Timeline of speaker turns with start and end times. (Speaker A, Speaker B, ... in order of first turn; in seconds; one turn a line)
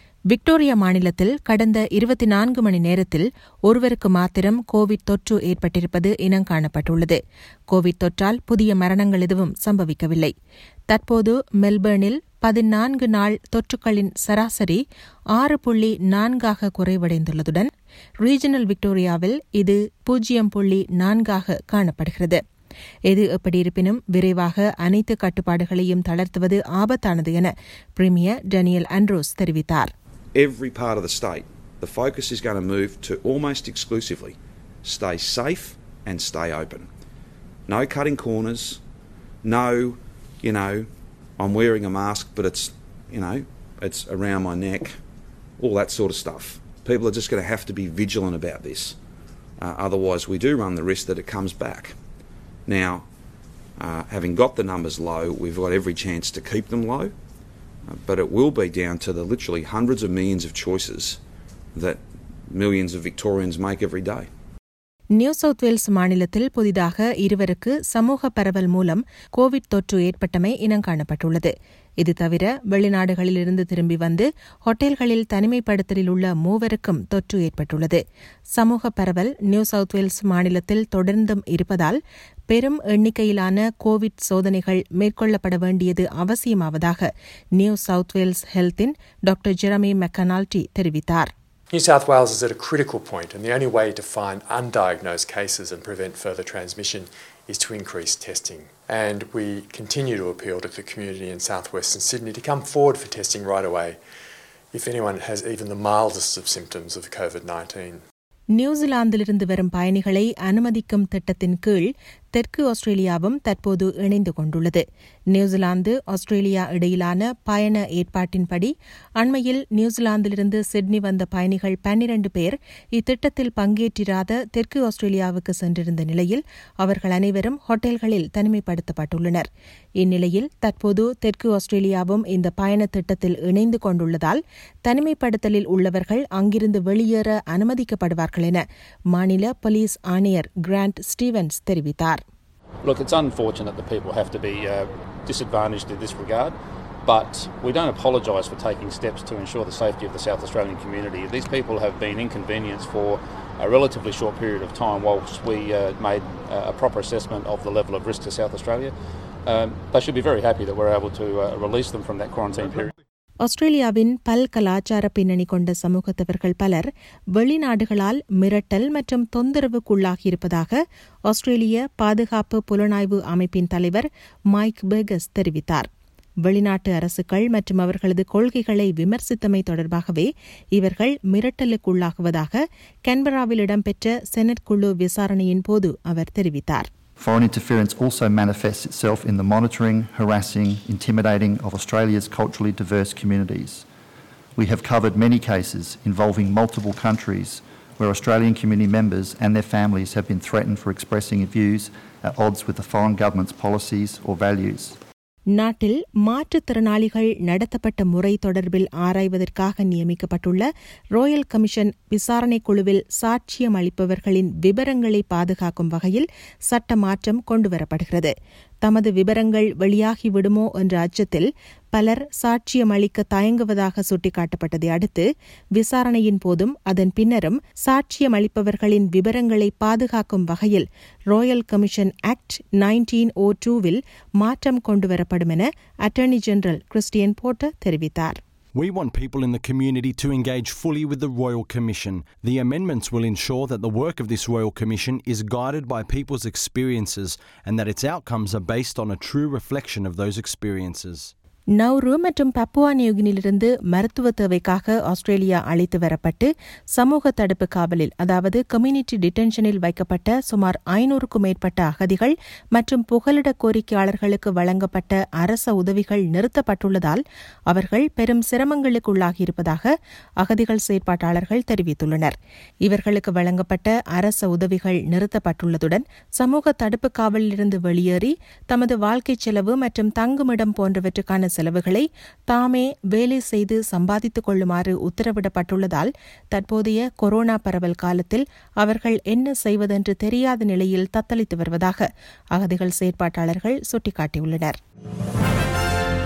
Speaker A: 0.3-7.2
Speaker A: 7.7-10.3
Speaker A: 10.9-14.8
Speaker A: 15.3-17.7
Speaker A: 18.2-22.4
Speaker A: 23.1-29.9
Speaker B: 30.3-36.9
Speaker B: 37.7-38.8
Speaker B: 39.4-45.0
Speaker B: 45.6-49.0
Speaker B: 49.6-52.0
Speaker B: 52.7-53.1
Speaker B: 53.8-57.1
Speaker B: 57.9-61.2
Speaker B: 61.7-64.3
Speaker A: 65.2-78.0
Speaker A: 78.5-82.0
Speaker A: 82.5-91.3
Speaker C: 91.7-104.0
Speaker C: 104.7-108.0
Speaker A: 108.6-129.5
Speaker A: 130.0-138.6
Speaker A: 139.1-142.2
Speaker D: 142.8-146.5
Speaker D: 147.1-158.9
Speaker D: 159.4-162.9
Speaker A: 163.4-175.9
Speaker A: 176.4-186.9
Speaker E: 187.2-193.9
Speaker E: 194.6-205.0
Speaker A: 205.6-238.4
Speaker F: 238.7-251.3
Speaker A: 251.8-269.9
Speaker A: 270.4-272.3
Speaker A: 272.9-294.8